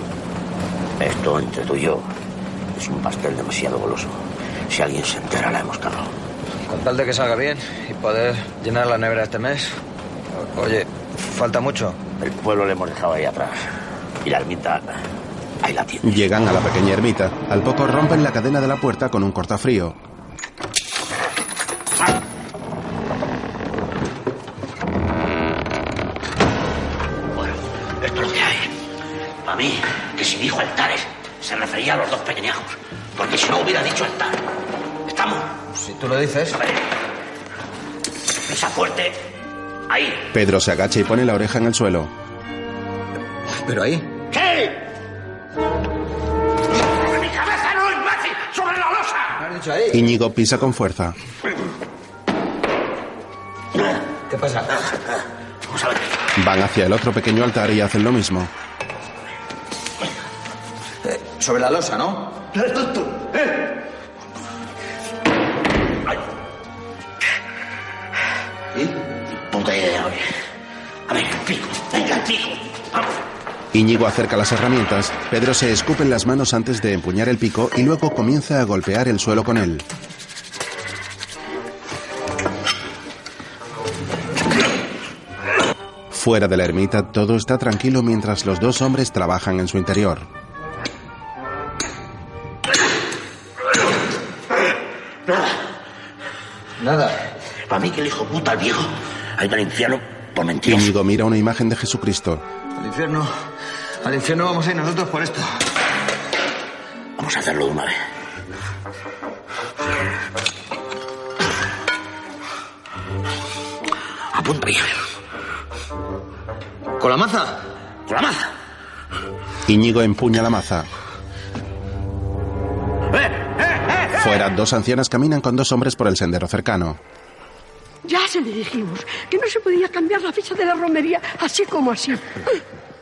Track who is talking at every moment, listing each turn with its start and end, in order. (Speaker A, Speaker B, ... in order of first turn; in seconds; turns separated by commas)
Speaker A: 1.0-2.1, Speaker A: 2.7-6.1, Speaker B: 6.7-9.8, Speaker B: 10.3-12.0, Speaker A: 12.2-13.7, Speaker A: 14.2-15.0, Speaker A: 15.6-16.2, Speaker C: 16.0-19.9, Speaker A: 27.3-28.7, Speaker A: 29.4-34.4, Speaker A: 35.0-35.5, Speaker B: 35.7-36.6, Speaker A: 36.6-36.9, Speaker A: 38.5-39.2, Speaker A: 39.9-40.2, Speaker C: 40.3-42.1, Speaker B: 43.6-44.1, Speaker A: 44.3-44.8, Speaker A: 46.9-49.3, Speaker B: 49.4-50.1, Speaker C: 49.9-51.1, Speaker A: 53.7-54.0, Speaker B: 54.3-54.8, Speaker A: 55.7-56.1, Speaker C: 56.4-58.5, Speaker B: 61.0-63.3, Speaker A: 69.5-70.3, Speaker A: 71.1-73.1, Speaker C: 73.7-79.8, Speaker C: 86.1-90.3, Speaker B: 96.8-97.2, Speaker A: 97.7-100.9, Speaker C: 100.7-102.4, Speaker B: 102.8-103.3, Speaker B: 104.0-105.5, Speaker A: 107.2-108.0, Speaker A: 114.3-115.0, Speaker B: 117.0-117.6, Speaker A: 118.1-118.5, Speaker C: 119.7-120.9, Speaker C: 124.2-127.0, Speaker D: 128.0-132.4